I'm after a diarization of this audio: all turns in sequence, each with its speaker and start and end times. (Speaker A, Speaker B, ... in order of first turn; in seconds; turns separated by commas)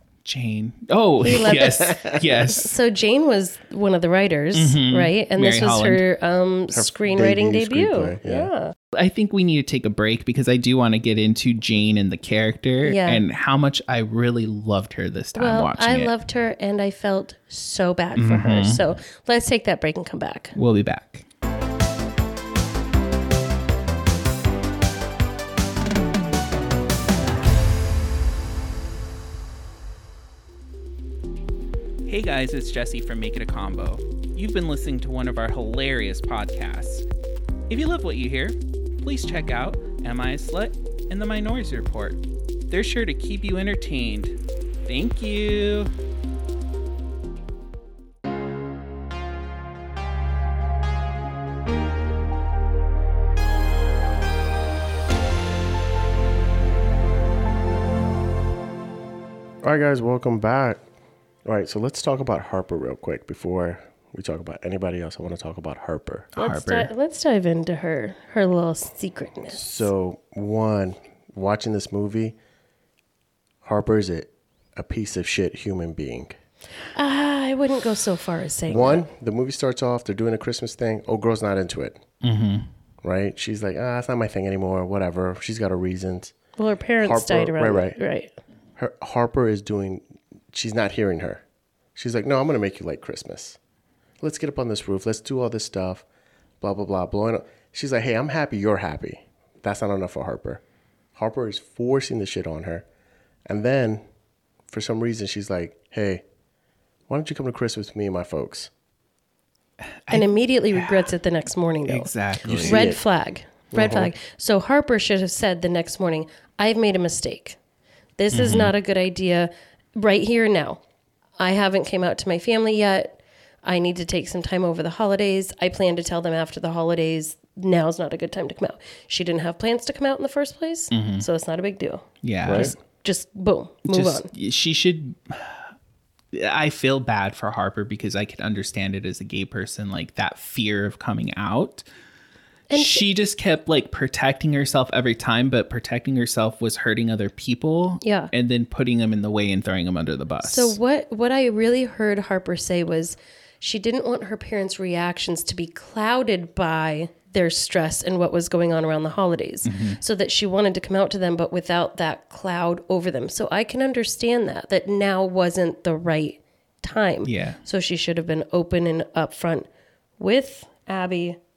Speaker A: 0.2-2.7, Speaker B: 1.2-1.9, Speaker C: 1.6-2.2, Speaker B: 2.5-8.7, Speaker A: 4.5-6.0, Speaker C: 6.7-8.5, Speaker A: 8.9-16.1, Speaker B: 12.8-13.2, Speaker B: 15.3-20.6, Speaker A: 18.1-18.9, Speaker A: 20.6-21.2, Speaker A: 32.0-37.0, Speaker A: 37.7-45.9, Speaker C: 59.6-60.8, Speaker C: 61.4-66.3, Speaker A: 66.3-66.9, Speaker B: 66.3-69.9, Speaker C: 69.5-72.3, Speaker C: 73.6-76.3, Speaker B: 76.9-79.0, Speaker C: 78.7-82.0, Speaker A: 82.2-82.7, Speaker C: 83.0-86.3, Speaker B: 86.6-88.3, Speaker C: 87.0-88.0, Speaker C: 88.8-91.4, Speaker C: 91.9-93.6, Speaker C: 94.2-96.0, Speaker C: 96.6-100.6, Speaker C: 101.1-102.8, Speaker C: 103.5-104.0, Speaker C: 104.7-106.2, Speaker C: 107.1-108.7, Speaker A: 110.0-111.1, Speaker B: 110.1-117.6, Speaker A: 111.8-112.8, Speaker C: 112.4-113.0, Speaker C: 113.7-114.1, Speaker B: 118.2-120.8, Speaker A: 118.3-118.7, Speaker B: 121.4-134.3, Speaker A: 130.9-131.2, Speaker A: 132.2-132.7, Speaker C: 132.4-132.7, Speaker A: 133.9-135.7, Speaker A: 136.3-141.8, Speaker B: 142.7-143.0, Speaker A: 142.7-150.8, Speaker B: 148.0-148.3, Speaker B: 150.4-169.7, Speaker A: 159.7-160.0, Speaker A: 167.2-167.6, Speaker B: 170.2-171.4